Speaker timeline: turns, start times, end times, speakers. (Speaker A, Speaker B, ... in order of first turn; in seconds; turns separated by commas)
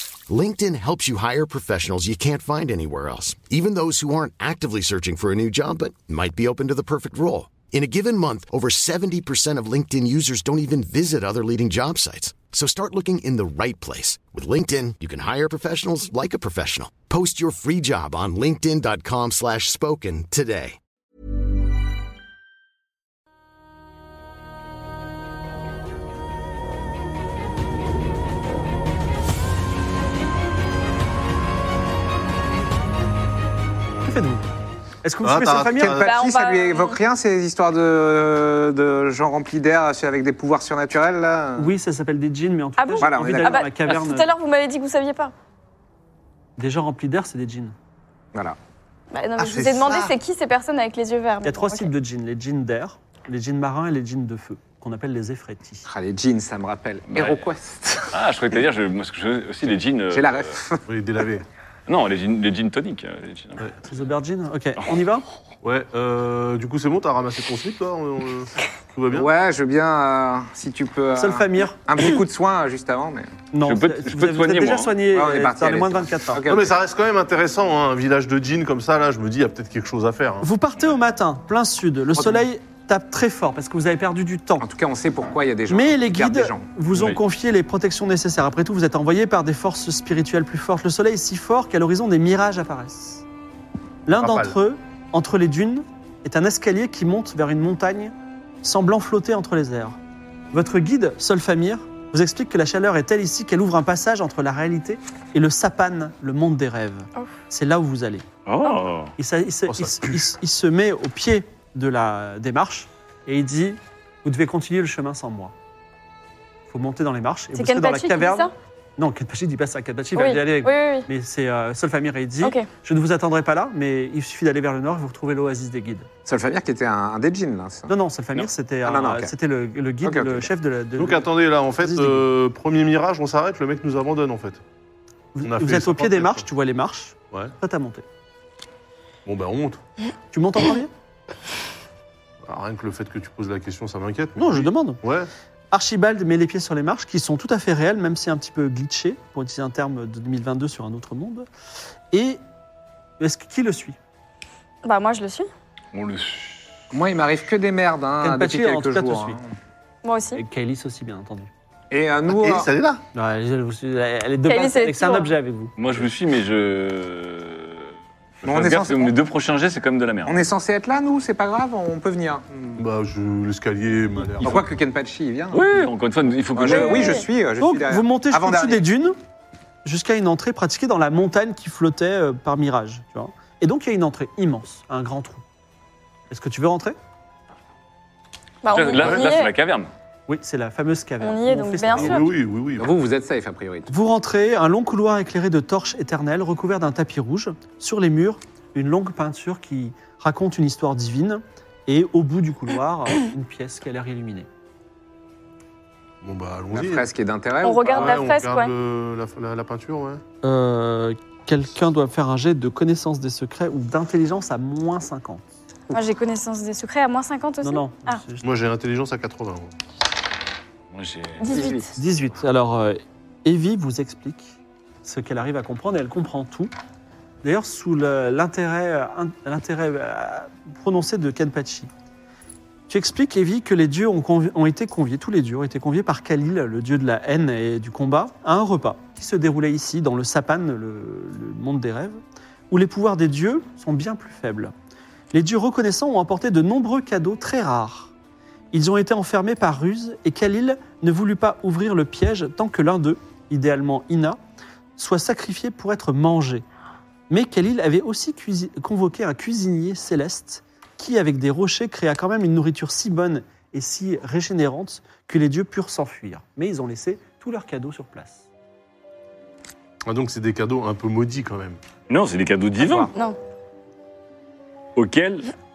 Speaker A: 0.3-20.8, Speaker B: 34.0-34.4, Speaker B: 35.0-36.0, Speaker C: 35.2-36.1, Speaker D: 35.7-41.7, Speaker E: 36.0-37.0, Speaker B: 41.6-44.3, Speaker E: 42.8-45.3, Speaker D: 43.0-43.8, Speaker B: 46.6-47.7, Speaker E: 49.1-51.9, Speaker C: 49.4-50.1, Speaker B: 51.5-55.8, Speaker D: 55.9-58.2, Speaker F: 57.1-57.5, Speaker F: 58.1-60.6, Speaker D: 60.1-60.9, Speaker C: 60.9-61.5, Speaker F: 61.9-63.7, Speaker B: 63.9-65.2, Speaker C: 65.6-69.3, Speaker D: 69.1-73.3, Speaker B: 71.2-71.8, Speaker B: 73.5-76.4, Speaker F: 73.6-75.0, Speaker D: 75.1-76.8, Speaker C: 76.5-80.5, Speaker B: 80.4-84.7, Speaker D: 82.2-82.5, Speaker D: 84.6-86.7, Speaker B: 85.7-93.2, Speaker F: 86.9-87.2, Speaker B: 94.1-100.0, Speaker C: 94.2-94.5, Speaker B: 100.5-108.2, Speaker F: 108.5-109.1, Speaker B: 109.2-115.5, Speaker C: 109.7-110.2, Speaker B: 116.7-126.1, Speaker E: 117.5-118.5, Speaker E: 120.2-121.1, Speaker E: 122.4-122.7, Speaker D: 126.3-127.9, Speaker B: 127.9-131.2, Speaker D: 128.8-129.3, Speaker D: 130.0-130.5, Speaker C: 131.0-134.6, Speaker B: 131.8-132.2, Speaker B: 135.3-138.0, Speaker C: 135.4-136.4, Speaker C: 139.3-139.8, Speaker B: 140.3-140.9, Speaker C: 142.4-145.3, Speaker B: 144.4-145.0, Speaker B: 145.7-151.5, Speaker B: 152.1-152.4, Speaker B: 153.2-154.0, Speaker E: 154.8-155.5, Speaker F: 155.9-156.7, Speaker D: 156.9-159.4, Speaker B: 158.2-159.4, Speaker E: 160.0-160.4, Speaker B: 160.3-161.5, Speaker D: 161.9-162.7, Speaker C: 162.3-163.0, Speaker B: 163.2-165.7, Speaker E: 164.4-165.3, Speaker F: 165.8-167.9, Speaker F: 168.4-170.5, Speaker D: 168.4-169.2, Speaker D: 170.3-172.8, Speaker C: 172.8-174.7, Speaker D: 174.4-175.9, Speaker F: 175.5-177.2, Speaker D: 176.5-178.9, Speaker E: 176.7-177.3, Speaker B: 177.6-179.2, Speaker B: 179.8-185.4, Speaker B: 186.3-187.0, Speaker E: 188.6-189.5, Speaker F: 188.7-189.9, Speaker C: 188.9-189.3, Speaker B: 190.3-192.3, Speaker E: 191.2-192.3, Speaker C: 191.9-192.9, Speaker D: 192.8-193.9, Speaker B: 193.9-204.5, Speaker C: 206.2-207.1, Speaker D: 206.7-208.2, Speaker E: 207.6-208.7, Speaker C: 207.9-210.2, Speaker B: 210.4-216.0, Speaker E: 215.9-218.2, Speaker B: 217.6-218.4, Speaker C: 218.4-219.7, Speaker F: 220.9-221.5, Speaker E: 221.4-221.9, Speaker D: 221.5-221.8, Speaker B: 221.9-226.7, Speaker B: 227.4-231.9, Speaker B: 232.9-242.2, Speaker B: 242.7-244.7, Speaker B: 245.3-248.1, Speaker B: 248.7-254.4, Speaker B: 255.0-256.6, Speaker B: 257.3-268.4, Speaker C: 270.1-271.8, Speaker F: 272.1-273.1, Speaker E: 273.1-273.4, Speaker F: 275.0-275.5